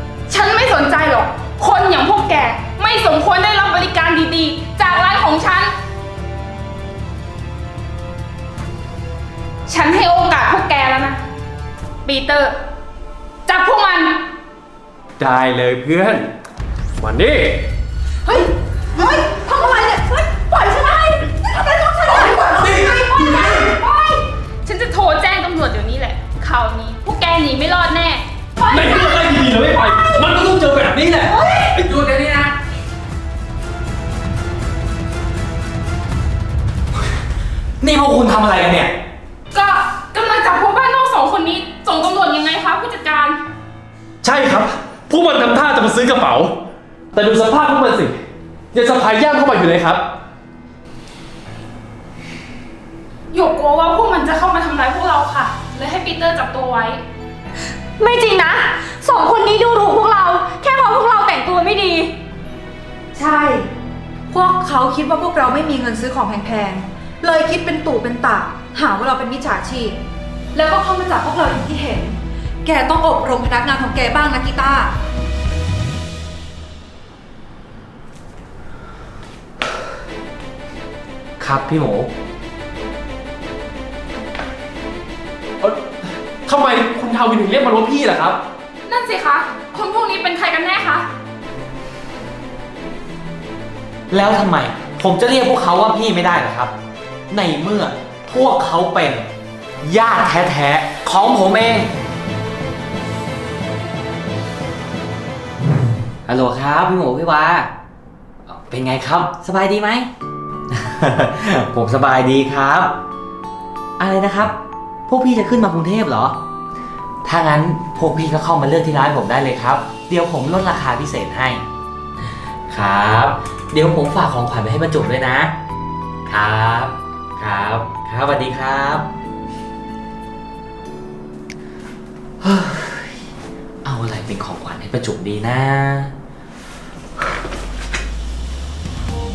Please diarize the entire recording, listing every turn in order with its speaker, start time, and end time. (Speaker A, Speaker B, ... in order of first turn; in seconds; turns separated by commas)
Speaker A: 0.3-5.7, Speaker A: 9.7-11.2, Speaker A: 12.0-12.6, Speaker A: 13.4-14.2, Speaker B: 15.2-16.3, Speaker B: 17.0-17.6, Speaker C: 18.2-24.2, Speaker B: 22.4-23.8, Speaker A: 24.6-29.8, Speaker B: 28.7-32.5, Speaker D: 37.8-38.9, Speaker A: 39.5-43.4, Speaker B: 44.2-46.5, Speaker B: 47.1-48.2, Speaker B: 48.7-50.0, Speaker A: 53.3-57.0, Speaker E: 58.0-62.1, Speaker C: 63.1-63.7, Speaker C: 64.3-70.0, Speaker C: 70.5-75.0, Speaker D: 81.4-82.1, Speaker B: 85.6-85.9, Speaker B: 86.4-88.4, Speaker A: 88.9-91.1, Speaker D: 94.1-96.7, Speaker D: 97.3-99.3, Speaker D: 99.8-101.9, Speaker D: 106.2-107.7, Speaker D: 108.5-110.1, Speaker D: 110.7-112.9, Speaker D: 114.0-114.6, Speaker D: 115.1-116.4, Speaker D: 117.2-121.6, Speaker D: 122.7-125.5, Speaker D: 126.3-129.1, Speaker D: 132.4-133.2, Speaker D: 133.8-136.1